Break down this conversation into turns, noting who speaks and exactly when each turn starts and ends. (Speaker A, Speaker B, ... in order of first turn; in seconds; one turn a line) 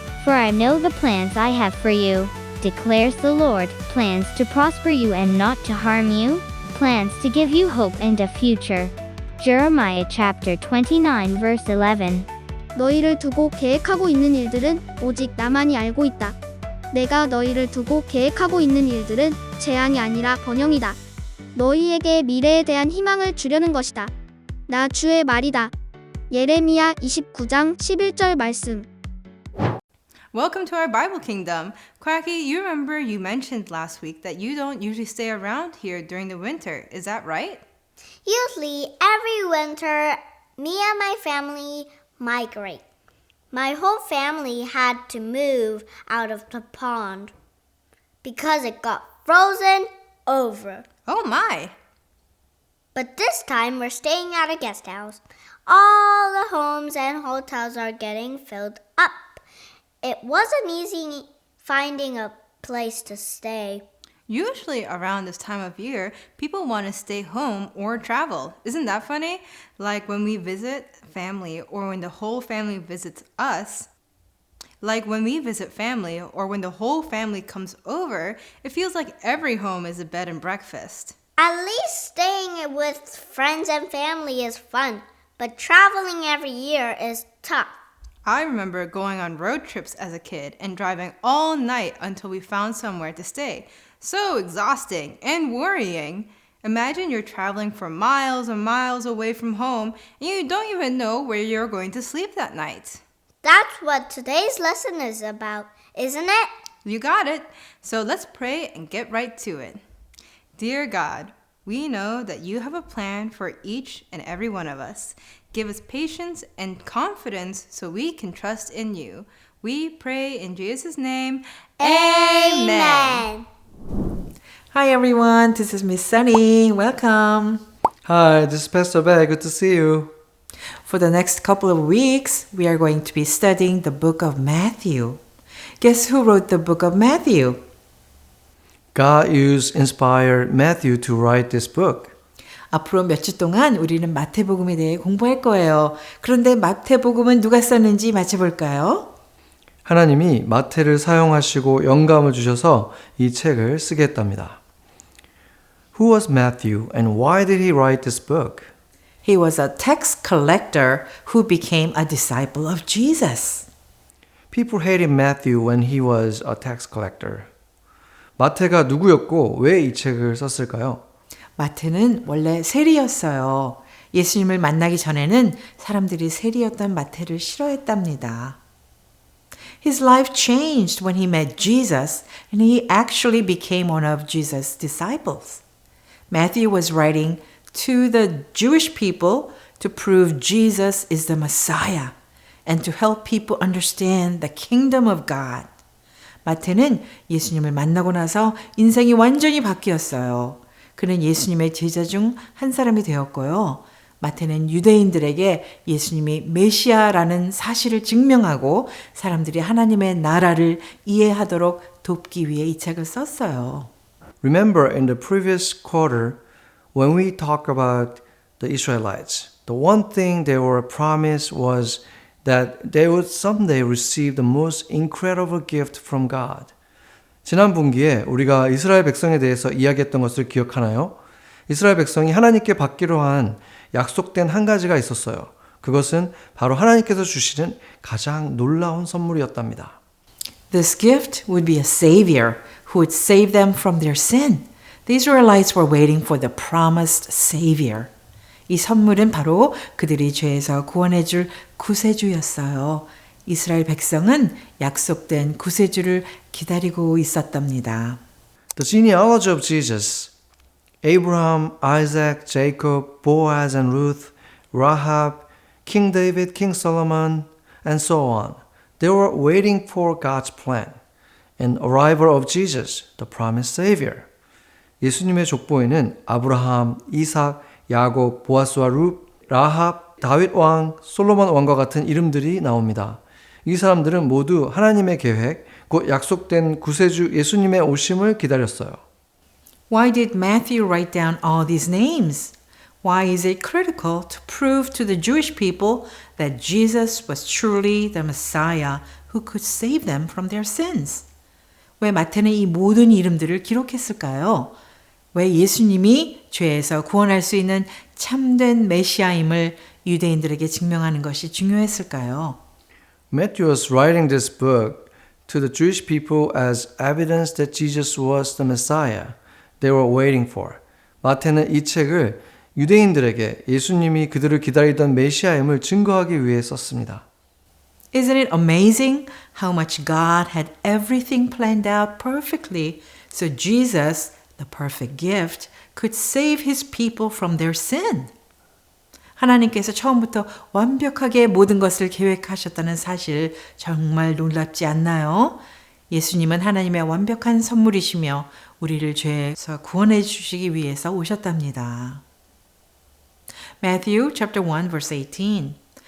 Speaker A: 0.2-12.3
Speaker B: 12.8-16.4
Speaker B: 16.9-21.0
Speaker B: 21.6-24.1
Speaker B: 24.7-25.7
Speaker B: 26.3-28.9
Speaker C: 30.3-37.6
Speaker D: 38.2-42.8
Speaker D: 43.5-47.3
Speaker D: 48.2-50.9
Speaker C: 51.1-51.7
Speaker D: 53.0-59.4
Speaker D: 60.0-63.9
Speaker C: 64.3-73.9
Speaker C: 74.8-81.1
Speaker D: 81.4-87.8
Speaker C: 88.2-103.0
Speaker D: 103.4-106.5
Speaker C: 106.8-109.8
Speaker C: 110.6-123.3
Speaker D: 121.8-123.5
Speaker E: 124.7-127.7
Speaker F: 128.1-130.1
Speaker E: 130.8-135.2
Speaker E: 135.8-137.6
Speaker F: 138.9-142.1
Speaker E: 142.7-149.1
Speaker F: 149.8-154.6
Speaker F: 155.9-158.7
Speaker E: 159.2-163.7
Speaker F: 164.5-167.5
Speaker F: 168.4-171.0
Speaker E: 171.6-178.6
Speaker E: 179.8-185.6
Speaker E: 186.3-192.1
Speaker E: 192.7-195.7
Speaker E: 196.4-213.9
Speaker F: 214.4-216.4
Speaker F: 216.9-226.7
Speaker F: 227.4-231.2
Speaker F: 231.7-240.0
Speaker E: 240.7-248.1
Speaker E: 248.7-258.2
Speaker F: 258.8-260.3
Speaker F: 261.0-271.0
Speaker F: 271.6-274.3
Speaker F: 275.0-289.0
Speaker E: 289.9-301.3
Speaker E: 302.0-304.8
Speaker E: 305.3-312.6
Speaker F: 313.3-327.2
Speaker E: 328.1-338.3
Speaker E: 339.4-352.2
Speaker E: 353.8-355.8